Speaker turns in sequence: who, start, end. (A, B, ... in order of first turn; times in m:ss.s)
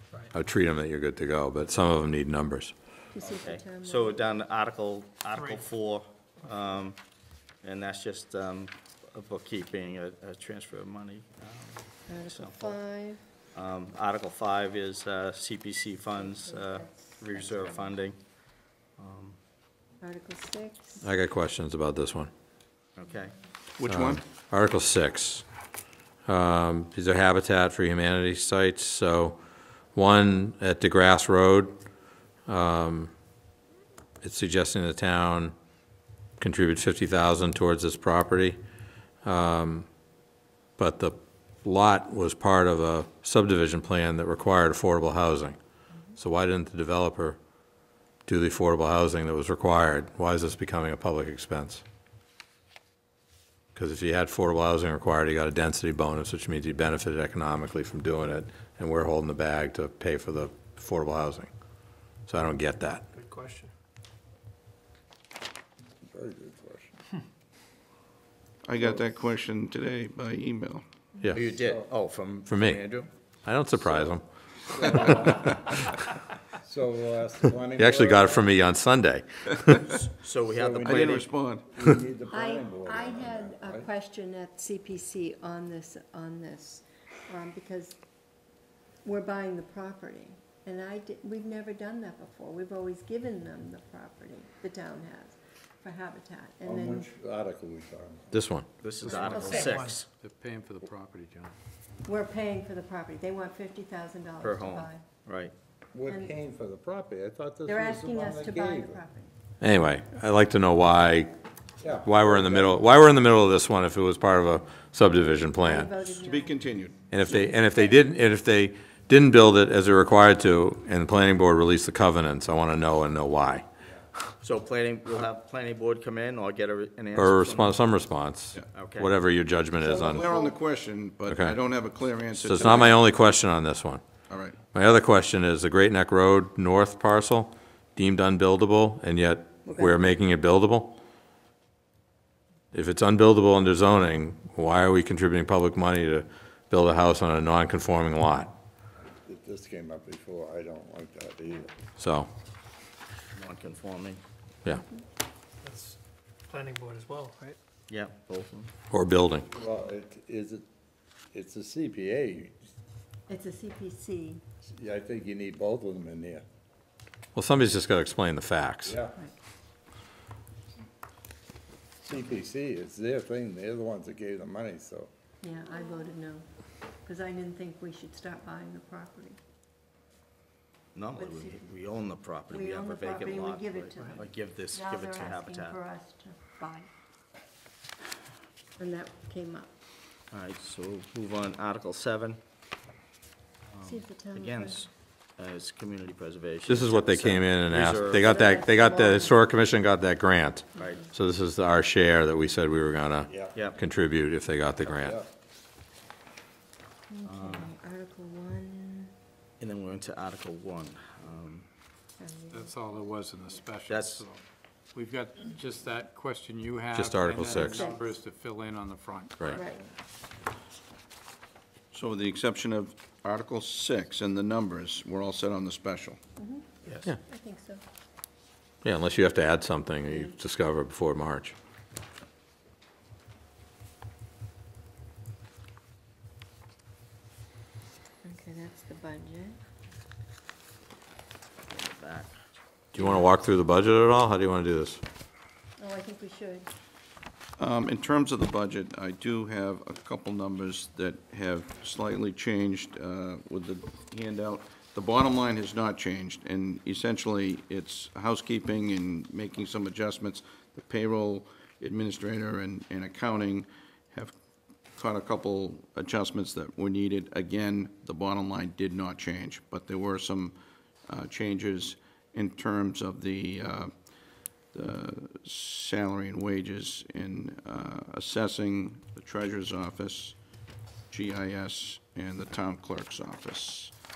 0:00.3-0:02.7 A
0:03.1-0:04.3 B
0:03.2-0:07.0 C
0:07.6-0:12.8 C
0:12.1-0:13.2 B
0:13.5-0:18.2 C
0:16.2-0:18.0 B
0:19.0-0:19.4 C
0:20.0-0:21.1 B
0:21.0-0:22.3 A
0:23.0-0:23.4 C
0:23.8-0:24.2 D
0:23.9-0:25.4 A
0:26.3-0:29.4 A
0:30.0-0:31.8 A
0:32.5-0:33.1 A
0:34.2-0:35.5 A
0:36.4-0:38.6 A
0:39.2-0:39.9 A
0:40.8-0:45.6 A
0:46.2-0:47.4 A
0:48.3-0:51.8 A
0:53.8-1:01.5 A
1:02.3-1:03.0 A
1:03.2-1:03.7 E
1:06.1-1:06.9 F
1:08.6-1:10.8 D
1:11.3-1:13.1 C
1:11.5-1:11.9 F
1:12.5-1:12.8 A
1:13.5-1:14.2 A
1:13.8-1:16.0 F
1:16.5-1:18.4 F
1:17.8-1:19.9 A
1:19.9-1:21.3 C
1:20.5-1:23.9 F
1:20.8-1:21.6 D
1:22.3-1:28.0 B
1:29.0-1:37.1 B
1:36.6-1:38.3 F
1:38.3-1:38.7 A
1:38.8-1:40.1 C
1:39.1-1:39.8 B
1:39.1-1:40.0 E
1:40.2-1:41.6 G
1:42.0-1:45.0 B
1:44.4-1:45.5 C
1:45.9-1:49.0 F
1:46.1-1:46.3 B
1:47.7-1:49.3 B
1:49.6-1:51.3 A
1:51.8-1:52.8 F
1:52.0-1:56.0 A
1:55.6-1:56.6 B
1:56.2-1:57.0 D
1:57.1-2:03.6 A
1:57.3-1:58.0 B
2:04.4-2:07.9 C
2:07.2-2:10.4 A
2:08.7-2:09.1 C
2:09.8-2:13.0 D
2:10.0-2:10.5 B
2:11.3-2:11.6 A
2:12.3-2:14.0 A
2:14.3-2:14.6 D
2:14.7-2:21.0 A
2:19.6-2:20.0 B
2:22.7-2:28.5 A
2:29.2-2:31.7 F
2:32.0-2:32.3 A
2:33.4-2:34.2 C
2:35.6-2:36.0 E
2:36.5-2:37.6 E
2:37.9-2:38.7 C
2:38.9-2:39.5 A
2:39.5-2:40.6 F
2:41.3-2:42.5 F
2:43.3-2:44.4 B
2:44.8-2:46.4 F
2:47.4-2:49.0 A
2:48.9-2:49.2 F
2:52.0-2:55.1 F
2:55.4-2:56.5 B
2:57.0-2:59.4 B
3:01.0-3:05.8 C
3:01.2-3:01.7 B
3:02.5-3:06.9 B
3:08.8-3:09.7 B
3:10.3-3:12.4 C
3:13.7-3:18.3 C
3:13.8-3:14.8 B
3:16.7-3:25.2 A
3:18.2-3:19.5 B
3:20.8-3:21.0 B
3:20.8-3:21.0 C
3:23.3-3:23.5 F
3:23.5-3:23.8 C
3:24.9-3:25.3 F
3:27.1-3:29.1 B
3:27.2-3:27.7 C
3:29.6-3:31.7 C
3:32.2-3:32.8 B
3:32.5-3:34.4 G
3:33.9-3:34.2 C
3:34.9-3:39.6 G
3:36.9-3:37.8 A
3:37.5-3:38.0 B
3:39.5-3:39.9 B
3:41.9-3:46.2 D
3:46.4-3:47.8 B
3:48.8-3:51.5 A
3:50.1-3:50.3 B
3:58.2-3:59.6 B
4:01.7-4:02.3 C
4:02.9-4:05.0 A
4:05.8-4:06.7 B
4:07.6-4:24.4 D
4:25.0-4:30.6 D
4:31.1-4:33.9 D
4:34.7-4:40.4 D
4:41.1-4:43.9 D